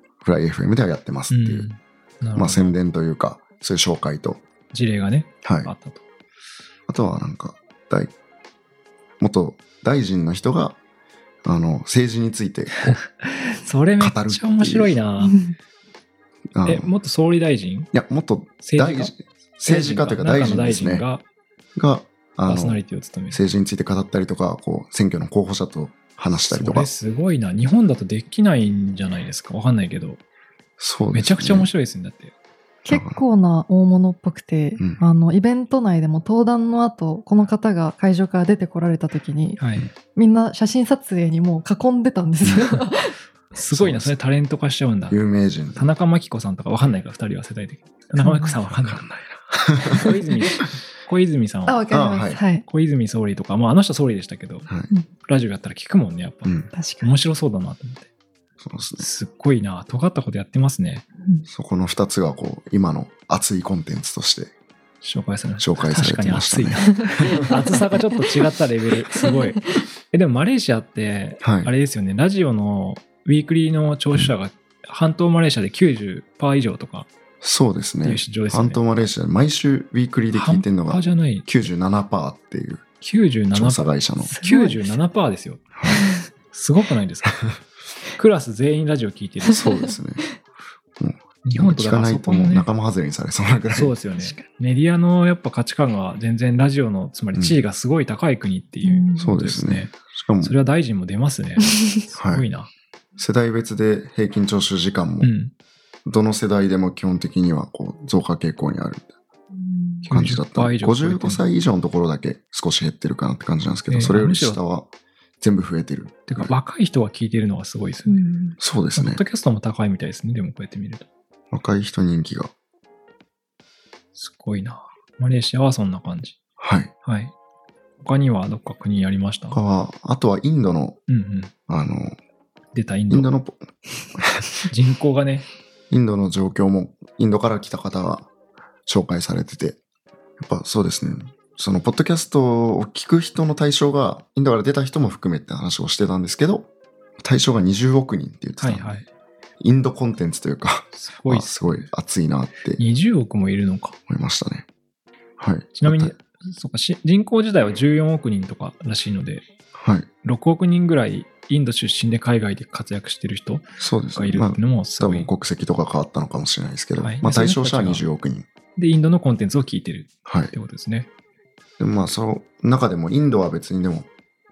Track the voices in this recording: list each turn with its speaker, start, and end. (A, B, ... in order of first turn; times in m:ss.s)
0:00.2-0:01.7 A
0:01.3-0:02.7 B
0:02.3-0:04.4 A
0:04.7-0:06.0 B
0:05.4-0:05.7 A
0:06.9-0:08.1 A
0:09.2-0:10.8 A
0:11.4-0:13.0 A
0:12.8-0:15.4 B
0:14.0-0:14.9 A
0:15.2-0:15.5 C
0:16.5-0:16.9 A
0:16.6-0:17.9 B
0:17.9-0:21.0 A
0:18.6-0:19.1 B
0:19.6-0:21.2 B
0:21.8-0:26.9 A
0:22.4-0:23.4 B
0:26.4-0:30.2 B
0:30.8-0:31.7 A
0:31.1-0:32.3 B
0:32.8-0:39.6 C
0:32.9-0:33.2 A
0:39.6-0:39.9 B
0:40.1-0:43.1 C
0:42.4-0:42.7 A
0:43.5-0:45.2 B
0:43.7-0:44.1 A
0:45.1-0:45.9 A
0:45.7-0:51.8 B
0:48.2-0:48.5 C
0:48.7-0:50.1 A
0:51.7-0:52.6 C
0:51.9-0:52.4 A
0:52.6-0:54.7 B
0:55.2-0:58.1 B
0:56.4-0:56.7 A
0:56.7-0:57.1 C
0:58.6-0:59.1 A
0:59.0-1:01.1 B
1:01.5-1:04.5 A
1:05.0-1:17.1 B
1:05.6-1:07.1 A
1:07.0-1:07.6 C
1:11.4-1:11.7 A
1:17.4-1:22.8 A
1:18.0-1:18.8 B
1:20.3-1:21.7 B
1:23.0-1:26.0 B
1:23.5-1:24.3 A
1:24.3-1:25.0 C
1:25.7-1:26.0 A
1:25.9-1:26.2 C
1:26.5-1:27.4 B
1:28.1-1:29.6 B
1:29.5-1:30.3 A
1:31.0-1:33.9 A
1:31.4-1:32.7 B
1:33.7-1:42.7 B
1:38.8-1:39.3 C
1:39.2-1:40.5 A
1:42.2-1:42.4 A
1:43.2-1:45.3 A
1:45.2-1:45.5 B
1:46.0-1:49.1 A
1:49.5-1:50.0 C
1:50.0-1:51.4 B
1:50.1-1:54.9 A
1:53.9-1:54.6 B
1:55.4-1:56.5 A
1:56.3-1:58.2 B
1:58.1-1:58.6 C
1:58.6-1:59.2 A
1:58.9-2:01.0 B
2:01.5-2:02.5 A
2:04.1-2:06.4 B
2:06.6-2:06.9 A
2:07.0-2:07.3 B
2:08.0-2:09.6 B
2:09.5-2:11.0 A
2:11.1-2:11.5 B
2:11.7-2:12.2 A
2:12.7-2:13.3 B
2:13.1-2:14.6 A
2:14.7-2:15.5 B
2:15.9-2:18.3 A
2:18.8-2:19.8 A
2:20.4-2:26.7 A
2:27.2-2:29.0 A
2:28.6-2:29.1 B
2:29.6-2:32.8 A
2:30.9-2:31.9 B
2:32.8-2:34.0 B
2:34.1-2:34.7 A
2:35.4-2:36.1 A
2:35.8-2:39.4 B
2:39.7-2:40.1 A
2:40.2-2:45.3 B
2:43.8-2:48.4 A
2:47.0-2:48.0 B
2:48.8-2:51.1 B
2:50.2-2:50.5 A
2:51.8-2:54.1 A